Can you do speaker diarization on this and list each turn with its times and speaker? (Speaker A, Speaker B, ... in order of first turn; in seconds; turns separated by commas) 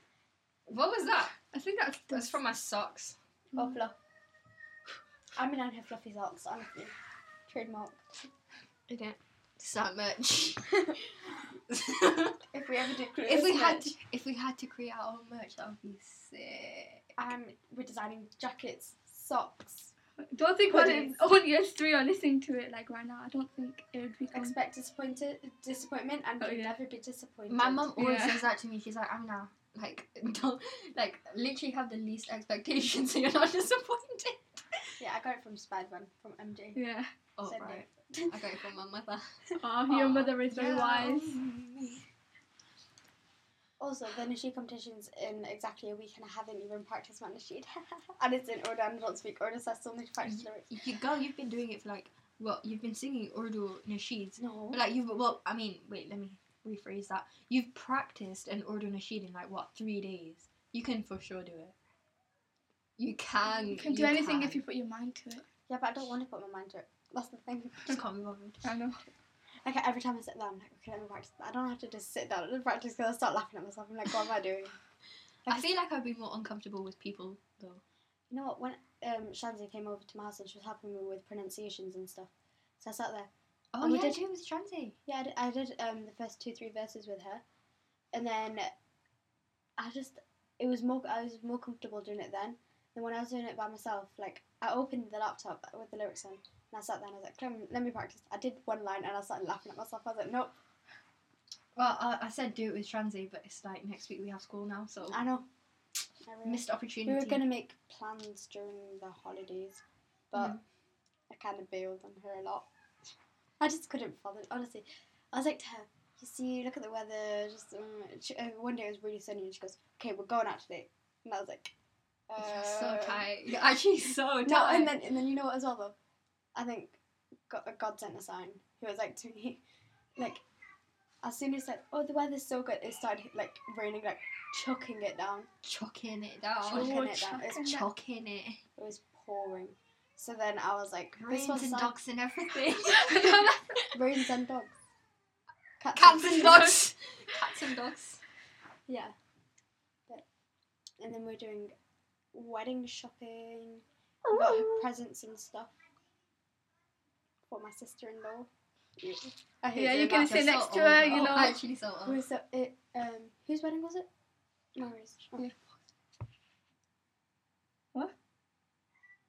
Speaker A: 0.7-1.5, Speaker B: 1.4-2.3, Speaker A: 2.1-3.2, Speaker C: 3.6-4.0, Speaker C: 5.4-6.9, Speaker C: 7.5-8.0, Speaker A: 8.9-11.1, Speaker A: 11.7-12.4, Speaker C: 12.5-13.9, Speaker A: 13.2-17.1, Speaker C: 17.2-19.9, Speaker B: 20.3-24.5, Speaker C: 20.7-21.2, Speaker C: 24.3-27.9, Speaker B: 26.4-26.8, Speaker A: 27.5-34.9, Speaker B: 28.0-28.4, Speaker C: 35.0-36.8, Speaker B: 36.8-37.1, Speaker A: 37.4-42.1, Speaker C: 37.4-38.4, Speaker B: 39.6-41.4, Speaker C: 40.5-40.8, Speaker C: 43.8-50.7, Speaker A: 50.2-61.8, Speaker C: 54.4-54.8, Speaker A: 63.0-64.6, Speaker B: 63.7-65.5, Speaker C: 65.7-68.0, Speaker A: 67.9-68.6, Speaker B: 68.6-69.0, Speaker C: 69.6-74.7, Speaker A: 75.5-77.8, Speaker C: 78.3-84.2, Speaker A: 83.7-85.0, Speaker C: 85.1-87.4, Speaker C: 88.1-88.7, Speaker C: 89.8-100.5, Speaker A: 101.8-105.3, Speaker C: 105.1-105.5, Speaker C: 106.2-110.6, Speaker A: 106.5-107.5, Speaker A: 110.3-110.6, Speaker C: 111.3-112.7, Speaker C: 113.6-121.7, Speaker C: 122.3-123.2, Speaker A: 122.4-125.0, Speaker C: 124.4-126.0, Speaker C: 126.5-127.0, Speaker C: 127.5-129.6, Speaker C: 130.2-130.4, Speaker C: 131.2-135.5, Speaker A: 135.6-136.9, Speaker C: 136.6-137.8, Speaker B: 136.7-137.8, Speaker A: 137.6-138.6, Speaker C: 138.8-141.9, Speaker A: 141.2-143.6, Speaker B: 143.0-143.8, Speaker C: 143.9-144.8, Speaker C: 145.8-146.8, Speaker A: 145.9-148.2, Speaker C: 148.9-149.1, Speaker C: 151.0-151.7, Speaker C: 152.3-155.7, Speaker A: 154.3-154.8, Speaker C: 157.5-160.5, Speaker B: 159.8-161.6, Speaker A: 160.1-162.2, Speaker C: 162.1-164.1, Speaker C: 164.8-165.5